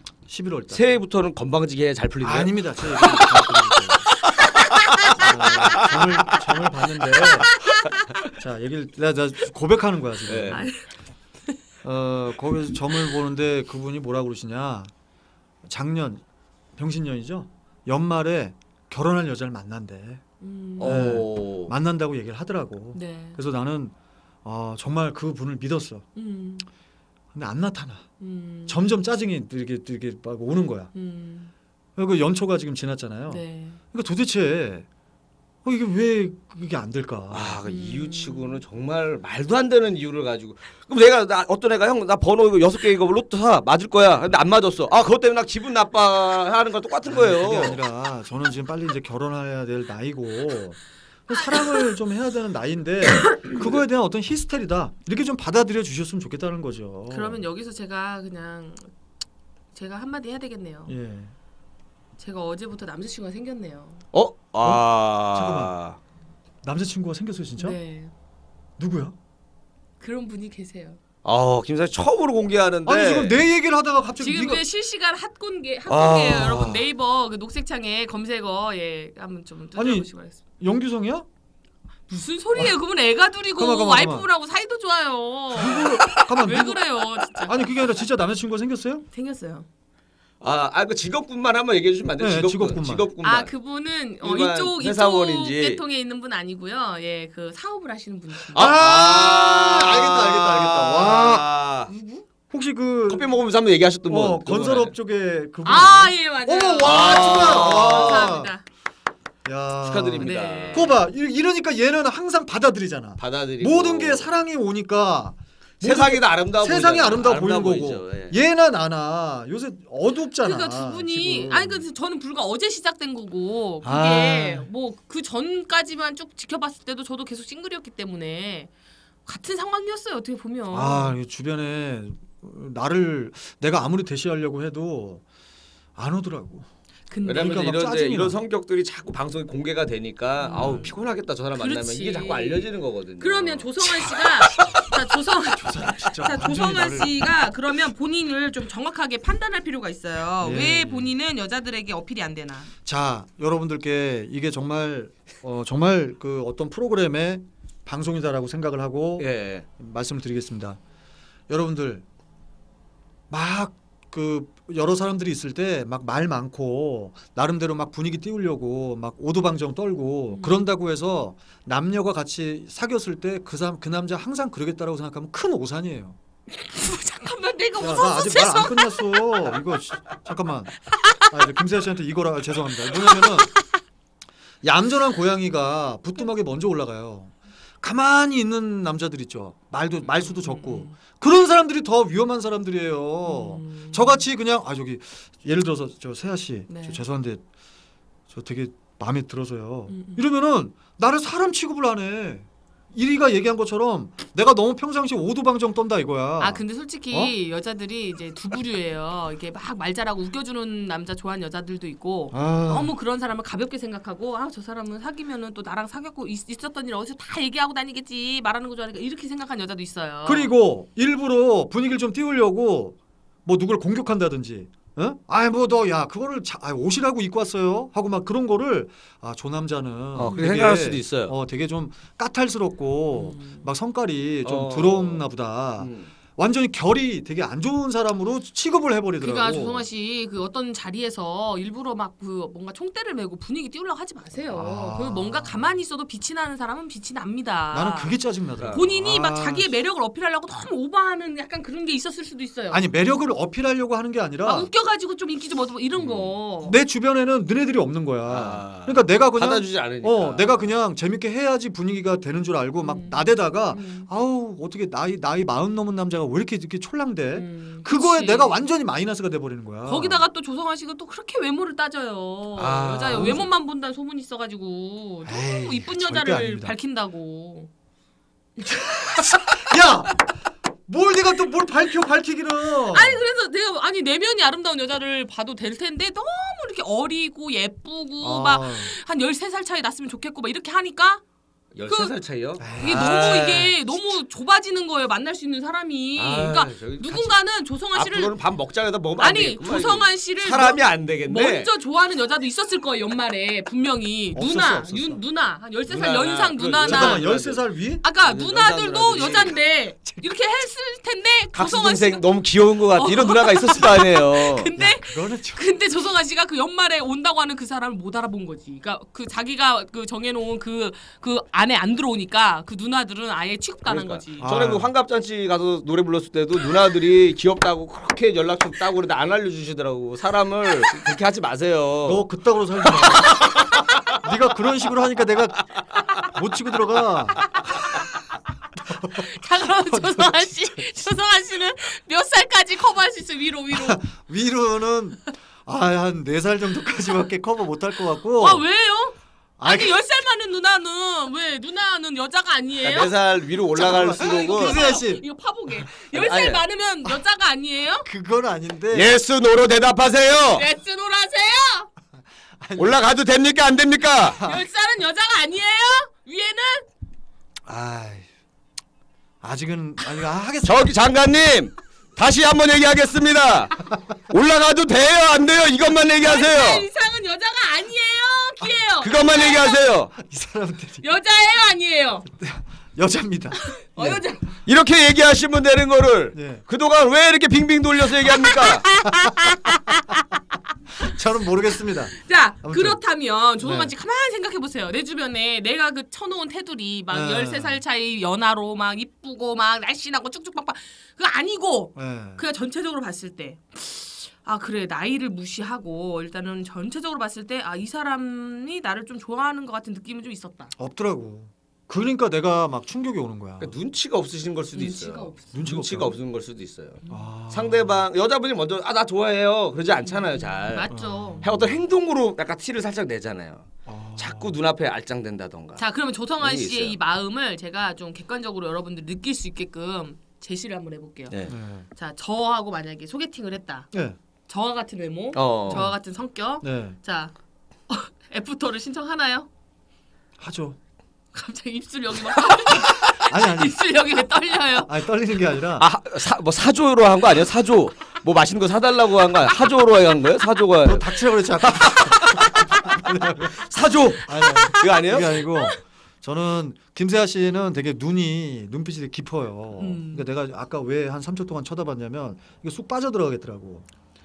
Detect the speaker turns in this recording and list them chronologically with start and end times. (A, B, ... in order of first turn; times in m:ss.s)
0:00.3-0:00.9 A
0:00.7-0:03.5 B
0:02.2-0:04.2 A
0:04.2-0:06.4 B
0:05.2-0:07.5 A
0:07.7-0:08.0 C
0:08.3-0:10.7 A
0:10.3-0:10.6 B
0:10.5-0:10.8 C
0:11.8-0:14.9 A
0:15.7-0:16.2 A
0:16.8-0:20.2 A
0:20.4-0:21.1 C
0:20.8-0:21.7 B
0:20.8-0:23.9 A
0:22.9-0:23.4 C
0:24.4-0:26.1 A
0:26.2-0:26.7 C
0:27.3-0:28.1 A
0:28.2-0:28.8 C
0:28.7-0:30.9 A
0:30.9-0:31.5 C
0:32.0-0:34.9 A
0:33.3-0:33.8 C
0:35.6-0:37.6 A
0:37.3-0:47.8 B
0:37.6-0:38.6 C
0:47.1-0:57.4 A
0:57.1-0:58.9 C
0:59.7-1:01.0 C
1:00.9-1:01.3 A
1:02.2-1:04.0 C
1:04.1-1:06.0 B
1:04.6-1:05.7 A
1:06.6-1:07.8 A
1:07.6-1:08.1 C
1:08.8-1:09.2 A
1:10.0-1:11.0 C
1:11.2-1:13.4 B
1:12.9-1:14.6 A
1:14.2-1:20.4 C
1:15.9-1:16.9 B
1:19.8-1:20.1 A
1:20.6-1:21.3 A
1:22.1-1:27.6 C
1:23.6-1:24.3 A
1:25.5-1:29.0 A
1:29.1-1:29.7 C
1:30.4-1:33.5 B
1:32.2-1:33.1 A
1:33.2-1:38.7 C
1:34.2-1:35.8 B
1:38.5-1:41.9 B
1:38.6-1:41.5 A
1:41.9-1:42.2 C
1:42.5-1:43.3 A
1:43.1-1:44.9 B
1:44.1-1:48.5 A
1:45.6-1:48.6 C
1:46.8-1:48.4 B
1:49.4-2:01.8 A
1:49.8-1:51.0 B
1:50.2-1:51.0 C
1:53.2-1:54.3 B
1:55.8-1:58.4 B
2:00.4-2:08.7 C
2:03.8-2:04.7 A
2:09.3-2:11.2 C
2:10.7-2:15.2 A
2:16.0-2:16.7 A
2:17.1-2:17.7 C
2:17.3-2:23.7 B
2:17.3-2:18.4 A
2:20.4-2:21.0 C
2:21.6-2:32.7 C
2:25.5-2:27.1 A
2:30.4-2:31.1 A
2:32.8-2:40.8 A
2:39.2-2:39.6 B
2:41.5-2:42.0 A
2:43.3-2:56.2 A
2:50.3-2:50.6 C
2:56.5-2:59.4 C
2:57.8-3:03.5 A
3:04.6-3:17.4 A
3:10.2-3:11.0 C
3:13.3-3:14.2 C
3:16.7-3:17.0 C
3:18.3-3:27.3 A
3:19.9-3:20.2 C
3:26.4-3:40.5 C
3:32.3-3:32.9 A
3:40.2-3:59.8 A
3:50.2-3:51.3 B
3:53.1-3:53.7 C
3:54.4-3:55.3 B
3:55.8-3:56.1 B
3:59.2-4:08.2 C
4:04.5-4:05.6 A
4:07.7-4:09.7 A
4:08.7-4:12.8 C
4:12.7-4:14.7 A
4:14.4-4:16.8 C
4:16.0-4:16.3 B
4:16.6-4:30.2 A
4:18.3-4:20.7 B
4:22.8-4:24.1 C
4:27.3-4:28.6 C
4:29.9-4:37.7 C
4:32.6-4:33.4 B
4:33.1-4:33.5 A
4:35.2-4:36.8 A
4:38.6-4:39.6 C
4:39.3-4:40.3 A
4:40.9-4:43.2 A
4:42.9-4:51.2 C
4:48.2-4:48.9 A
4:51.8-4:53.7 B
4:51.9-4:52.2 C
4:52.6-4:53.6 A
4:52.8-4:58.3 C
4:56.2-4:57.4 B
4:57.9-5:01.7 B
4:59.2-5:07.2 C
5:04.4-5:05.2 A
5:05.9-5:07.6 B
5:06.8-5:08.0 A
5:08.0-5:12.3 C
5:08.2-5:09.6 B
5:11.5-5:14.7 B
5:13.0-5:24.5 C
5:14.8-5:15.7 A
5:23.8-5:32.3 B
5:24.4-5:24.9 A
5:32.0-5:35.7 A
5:33.0-5:33.7 B
5:36.2-5:37.6 A
5:38.9-5:41.0 A
5:39.1-5:44.0 C
5:43.7-5:48.6 A
5:48.4-5:53.1 C
5:49.6-5:50.0 A
5:52.8-5:54.8 B
5:53.8-5:55.2 A
5:53.8-5:58.1 C
5:56.1-5:56.6 B
5:58.0-5:59.2 A
5:58.9-6:00.7 B
6:00.5-6:01.9 C
6:02.6-6:03.0 A
6:02.8-6:04.4 B
6:04.4-6:06.9 C
6:07.7-6:08.3 A
6:09.4-6:10.9 A
6:10.6-6:16.9 B
6:16.2-6:19.8 C
6:19.0-6:20.1 B
6:20.2-6:21.0 A
6:21.0-6:22.3 C
6:22.3-6:24.2 A
6:23.7-6:24.5 C
6:24.7-6:28.9 B
6:26.3-6:26.6 A
6:28.5-6:30.2 C
6:31.0-6:33.0 A
6:32.1-6:50.7 C
6:33.6-6:33.9 A
6:37.1-6:37.8 A
6:42.0-6:42.4 A
6:50.8-6:53.7 A
6:53.6-7:00.9 B
6:54.7-6:55.6 C
6:55.5-6:56.1 A
6:57.1-6:58.0 A
7:00.0-7:01.5 C
7:00.9-7:01.8 A
7:01.4-7:05.8 B
7:03.9-7:04.5 A
7:05.8-7:11.3 C
7:06.4-7:07.0 B
7:11.5-7:11.9 A
7:12.0-7:13.9 C
7:13.9-7:14.2 A
7:14.5-7:17.3 C
7:15.3-7:15.9 B
7:15.7-7:16.0 A
7:16.6-7:17.0 A
7:17.9-7:19.5 C
7:20.4-7:20.8 A
7:21.3-7:24.9 C
7:22.8-7:23.8 A
7:24.8-7:25.9 A
7:25.8-7:35.4 B
7:30.8-7:33.5 A
7:34.2-7:43.9 A
7:34.5-7:34.8 C
7:39.8-7:40.2 C